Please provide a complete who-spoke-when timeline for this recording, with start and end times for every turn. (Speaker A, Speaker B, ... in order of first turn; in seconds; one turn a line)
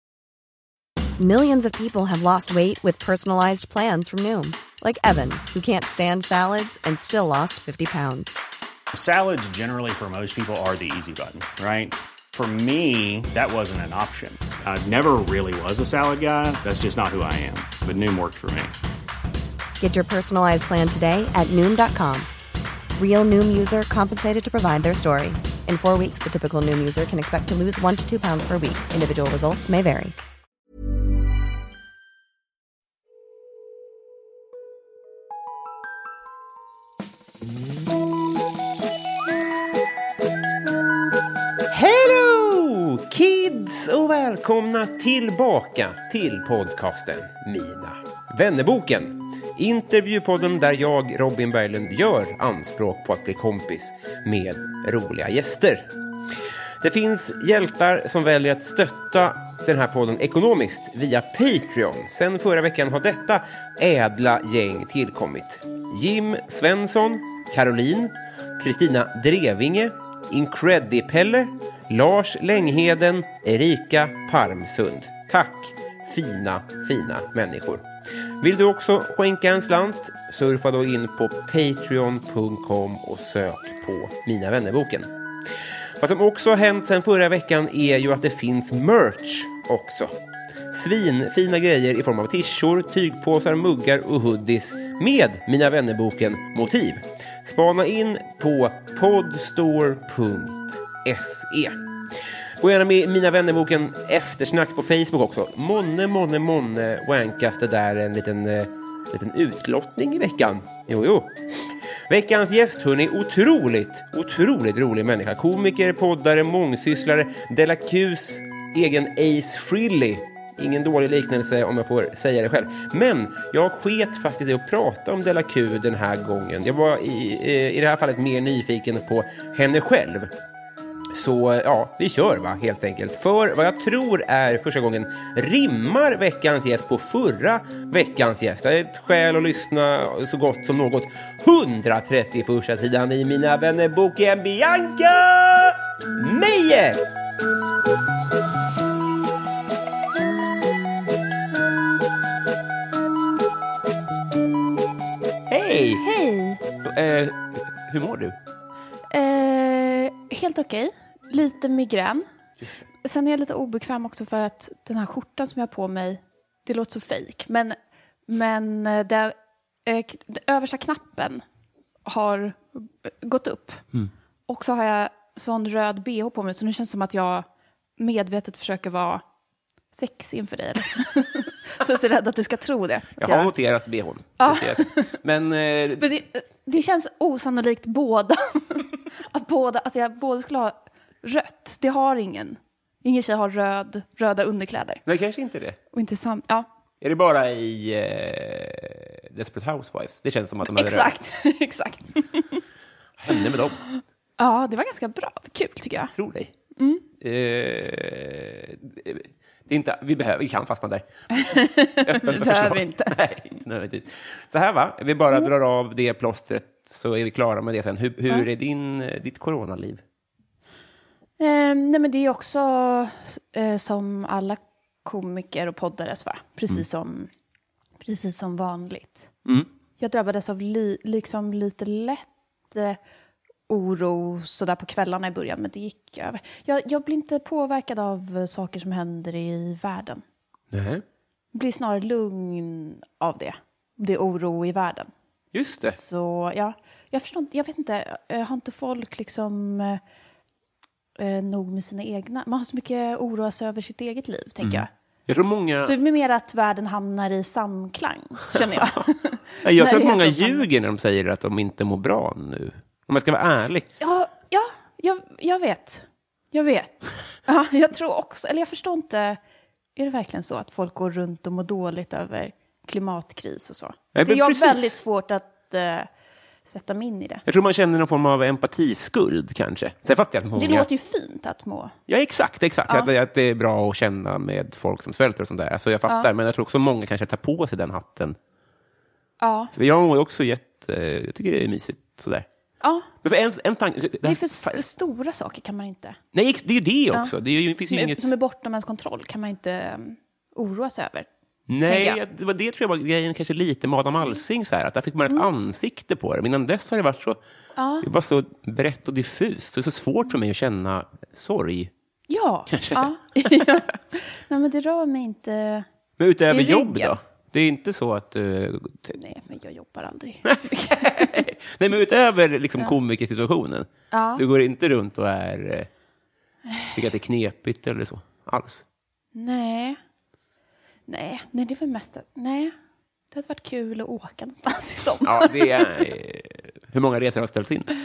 Speaker A: 1.2-8.4
Speaker B: 8.9-18.8
Speaker A: 19.8-22.3
Speaker A: 23.0-30.1
Speaker C: 41.7-55.9
Speaker C: 56.8-77.9
Speaker C: 78.4-85.1
Speaker C: 86.0-90.1
Speaker C: 90.7-101.8
Speaker C: 102.6-130.3
Speaker C: 131.1-147.0
Speaker C: 155.5-156.0
Speaker D: 156.0-156.6
Speaker C: 156.7-158.3
Speaker D: 159.1-162.2
Speaker D: 163.0-167.8
Speaker D: 168.3-171.4
Speaker D: 172.1-173.8
Speaker D: 174.5-177.4
Speaker D: 178.0-179.2
Speaker D: 179.9-183.5
Speaker C: 183.2-186.1
Speaker D: 184.4-185.2
Speaker D: 186.0-195.0
Speaker C: 195.1-195.8
Speaker D: 195.9-196.7
Speaker C: 197.0-201.1
Speaker D: 200.6-202.6
Speaker C: 203.2-203.8
Speaker D: 203.9-206.1
Speaker C: 206.1-206.5
Speaker D: 206.8-207.0
Speaker C: 207.2-211.1
Speaker D: 211.3-213.2
Speaker C: 212.0-220.0
Speaker D: 221.4-227.3
Speaker D: 228.0-229.3
Speaker D: 230.0-233.0
Speaker D: 233.7-240.2
Speaker C: 240.7-241.0
Speaker D: 241.5-245.1
Speaker C: 245.5-246.0
Speaker D: 245.8-250.0
Speaker D: 251.2-254.9
Speaker C: 254.6-255.9
Speaker D: 255.8-260.7
Speaker C: 258.5-259.0
Speaker C: 259.6-263.9
Speaker D: 264.0-269.4
Speaker D: 269.9-276.1
Speaker C: 274.1-275.0
Speaker D: 276.6-277.4
Speaker C: 277.4-280.9
Speaker D: 280.6-281.9
Speaker C: 282.1-288.4
Speaker D: 289.4-289.7
Speaker C: 289.7-292.5
Speaker D: 292.8-293.1
Speaker C: 293.2-294.8
Speaker D: 294.2-296.2
Speaker C: 296.3-298.3
Speaker D: 297.9-301.3
Speaker C: 301.7-307.4
Speaker D: 301.9-302.2
Speaker D: 307.8-308.1
Speaker C: 308.0-311.9
Speaker D: 312.3-315.9
Speaker C: 312.7-313.6
Speaker C: 316.2-319.2
Speaker D: 316.5-317.1
Speaker D: 319.1-321.4
Speaker C: 320.4-325.9
Speaker D: 324.1-324.4
Speaker D: 326.7-326.9
Speaker C: 326.9-328.8
Speaker D: 329.3-330.0
Speaker D: 331.1-332.7
Speaker D: 333.3-336.1
Speaker C: 335.2-337.9